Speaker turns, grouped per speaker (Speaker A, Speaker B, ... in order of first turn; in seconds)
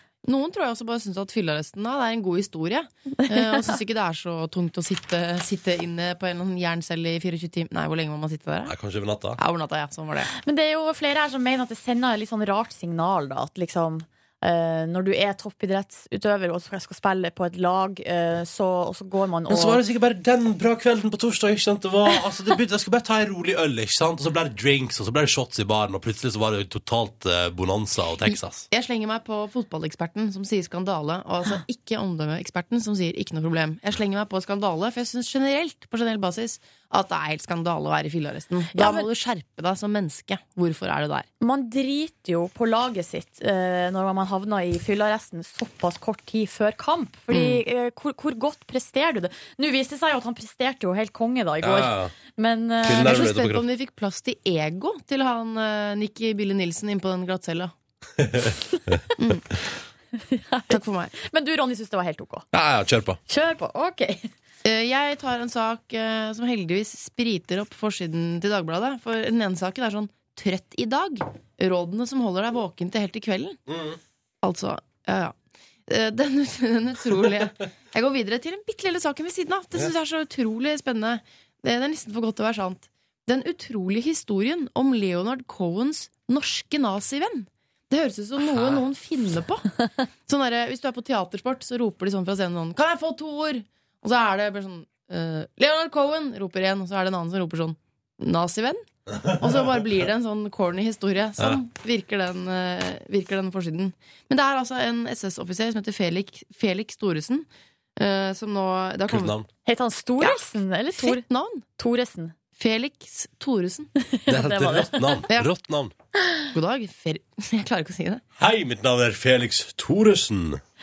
Speaker A: 0.2-8.7, 9.4-10.3, 28.7-41.3, 47.3-47.6, 52.9-57.7, 59.2-59.5, 60.7-61.1, 64.6-73.6, 74.4-75.3, 75.9-109.3, 110.2-110.5, 111.0-111.6, 112.6-113.9, 116.5-118.2
Speaker B: 3.2-3.6, 10.3-19.8, 38.7-39.1, 41.4-53.3, 60.3-62.5, 63.3-64.3, 109.7-111.2, 111.8-112.3, 114.0-115.3
Speaker C: 8.7-9.4, 19.5-28.7, 51.6-52.1, 52.8-53.7, 58.2-59.0, 62.5-63.2, 73.7-74.0, 88.4-88.8, 99.3-99.5, 109.1-109.5, 114.3-115.9, 118.4-120.6